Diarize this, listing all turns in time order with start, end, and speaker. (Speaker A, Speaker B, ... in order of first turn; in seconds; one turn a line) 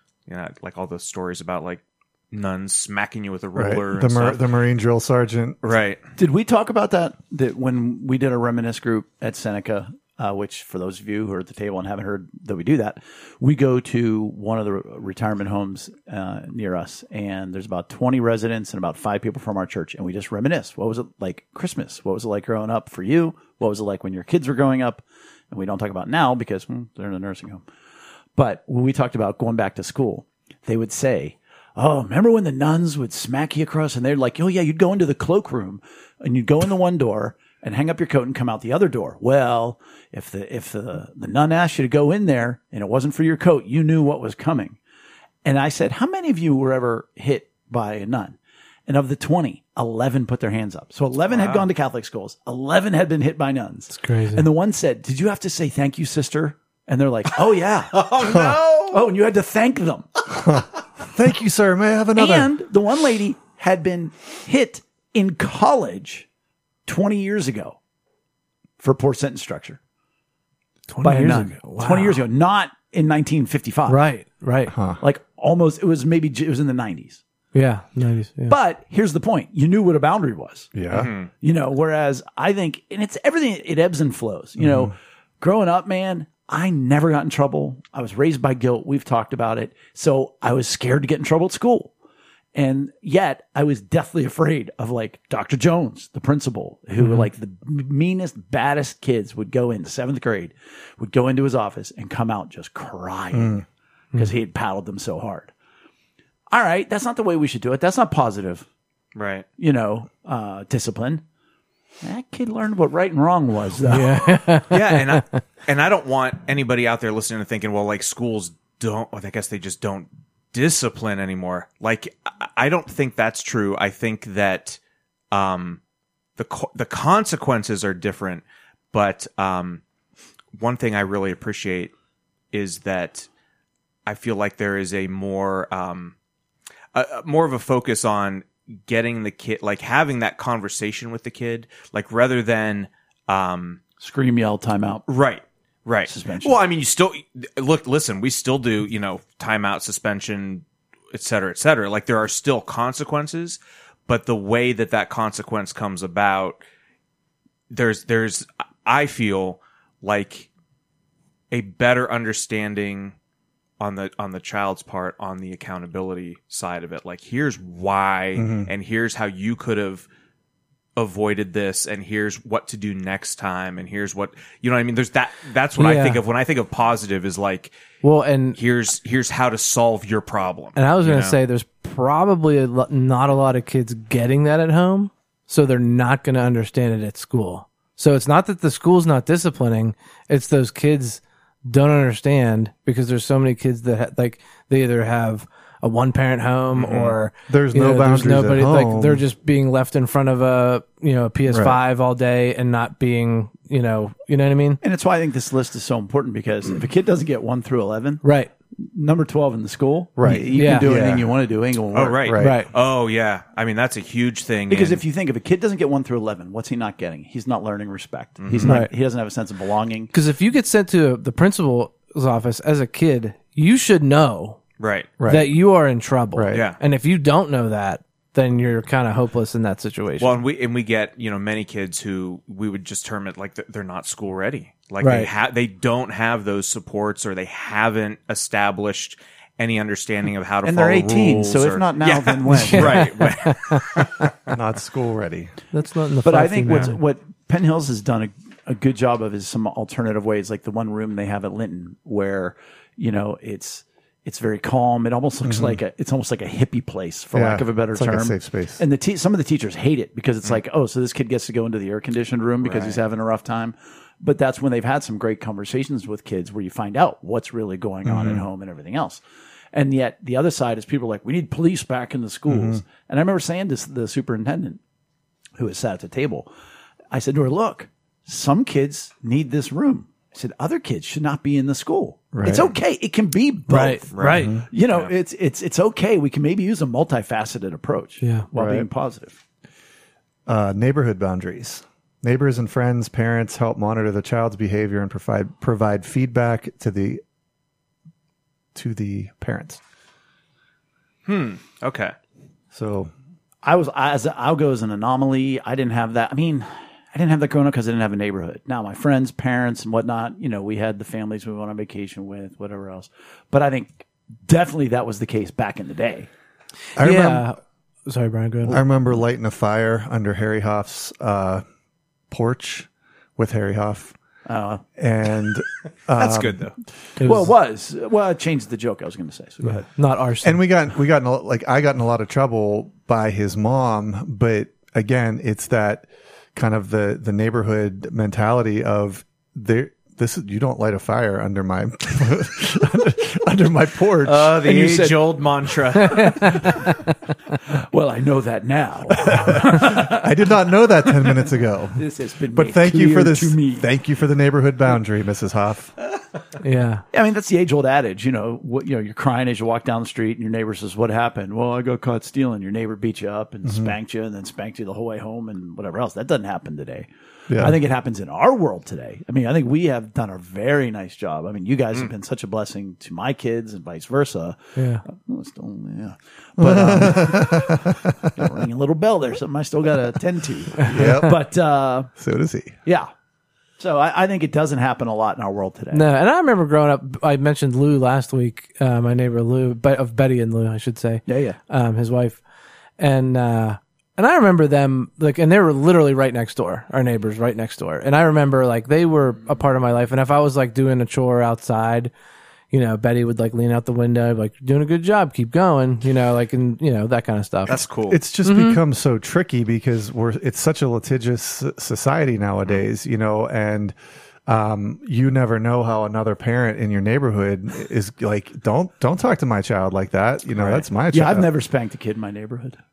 Speaker A: 0.3-4.4
Speaker B: 3.5-5.6
Speaker A: 5.6-6.0
Speaker C: 6.2-27.6
Speaker C: 28.4-44.8
Speaker C: 45.5-58.1
Speaker A: 51.3-51.6
Speaker D: 53.9-54.5
Speaker A: 57.9-59.0
Speaker B: 58.2-58.6
Speaker C: 58.9-60.2
Speaker B: 60.3-62.5
Speaker C: 62.1-66.3
Speaker C: 66.9-67.8
Speaker C: 68.8-69.8
Speaker D: 70.9-72.2
Speaker C: 71.0-74.0
Speaker D: 73.9-74.7
Speaker B: 74.7-75.0
Speaker C: 75.0-77.2
Speaker D: 77.5-78.6
Speaker C: 78.5-80.8
Speaker B: 80.7-81.1
Speaker A: 80.9-81.3
Speaker C: 81.4-91.9
Speaker B: 84.6-84.9
Speaker C: 92.5-103.6
Speaker D: 97.0-97.2
Speaker B: 103.3-103.6
Speaker C: 104.2-105.5
Speaker C: 106.5-108.7
Speaker A: 109.2-109.5
Speaker C: 109.6-111.2
Speaker C: 112.0-114.2
Speaker D: 113.9-115.4
Speaker A: 114.7-124.8
Speaker A: 125.3-125.8
Speaker A: 126.4-129.8
Speaker A: 130.6-131.9
Speaker A: 132.5-133.3
Speaker A: 134.1-136.1
Speaker A: 136.9-143.8
Speaker C: 144.0-145.1
Speaker A: 145.1-156.6
Speaker C: 146.1-146.6
Speaker A: 157.7-160.5
Speaker A: 161.5-163.2
Speaker A: 163.8-170.1
Speaker B: 168.4-168.7
Speaker A: 171.0-177.7
Speaker D: 175.8-176.2
Speaker D: 178.0-178.6
Speaker A: 178.6-181.4
Speaker D: 180.8-204.8
Speaker A: 196.7-197.2
Speaker B: 197.5-199.2
Speaker B: 201.5-201.8
Speaker C: 204.8-208.2
Speaker D: 208.2-208.5
Speaker C: 208.8-212.3
Speaker B: 210.2-211.3
Speaker D: 210.3-210.9
Speaker A: 211.9-215.0
Speaker B: 212.2-212.6
Speaker D: 212.4-212.7
Speaker C: 214.7-220.1
Speaker A: 218.4-218.8
Speaker D: 218.7-218.9
Speaker D: 220.1-224.6
Speaker A: 224.8-225.1
Speaker B: 225.2-225.5
Speaker D: 225.3-230.3
Speaker B: 226.3-226.7
Speaker A: 226.5-226.8
Speaker A: 230.2-244.6
Speaker D: 235.0-235.3
Speaker C: 240.6-243.1
Speaker D: 242.5-244.1
Speaker B: 244.5-245.5
Speaker D: 245.7-247.0
Speaker C: 246.2-269.2
Speaker B: 255.4-255.8
Speaker B: 257.3-258.8
Speaker A: 262.6-263.0
Speaker B: 268.1-268.4
Speaker C: 269.7-274.8
Speaker B: 272.5-272.8
Speaker C: 275.6-276.5
Speaker C: 277.1-289.4
Speaker B: 282.3-282.7
Speaker D: 283.7-284.6
Speaker A: 284.1-285.1
Speaker B: 284.3-284.6
Speaker B: 288.5-288.9
Speaker B: 290.5-297.2
Speaker B: 298.8-299.8
Speaker A: 301.3-302.1
Speaker B: 302.7-303.1
Speaker C: 303.6-316.3
Speaker B: 317.0-317.5
Speaker D: 317.0-318.9
Speaker B: 318.6-321.6
Speaker B: 322.3-324.1
Speaker C: 324.5-324.8
Speaker B: 325.0-326.7
Speaker A: 326.1-326.8
Speaker D: 327.2-327.5
Speaker C: 327.2-329.9
Speaker D: 329.9-330.6
Speaker B: 330.4-344.5
Speaker A: 344.2-346.6
Speaker C: 344.6-345.3
Speaker D: 346.0-347.1
Speaker C: 347.7-350.3
Speaker B: 349.3-355.9
Speaker C: 352.0-353.9
Speaker D: 356.6-357.1
Speaker C: 357.1-382.1
Speaker B: 363.7-363.9
Speaker B: 367.5-367.8
Speaker D: 374.8-375.0
Speaker B: 376.6-378.5
Speaker D: 380.8-381.2
Speaker B: 380.8-381.4
Speaker B: 382.2-382.8
Speaker C: 382.9-383.1
Speaker C: 383.8-386.1
Speaker D: 385.9-392.4
Speaker C: 391.3-391.6
Speaker D: 393.0-402.1
Speaker D: 402.7-407.8
Speaker A: 407.7-408.2
Speaker B: 408.1-413.9
Speaker D: 408.4-408.8
Speaker B: 414.5-421.5
Speaker A: 420.6-420.9
Speaker C: 421.1-422.8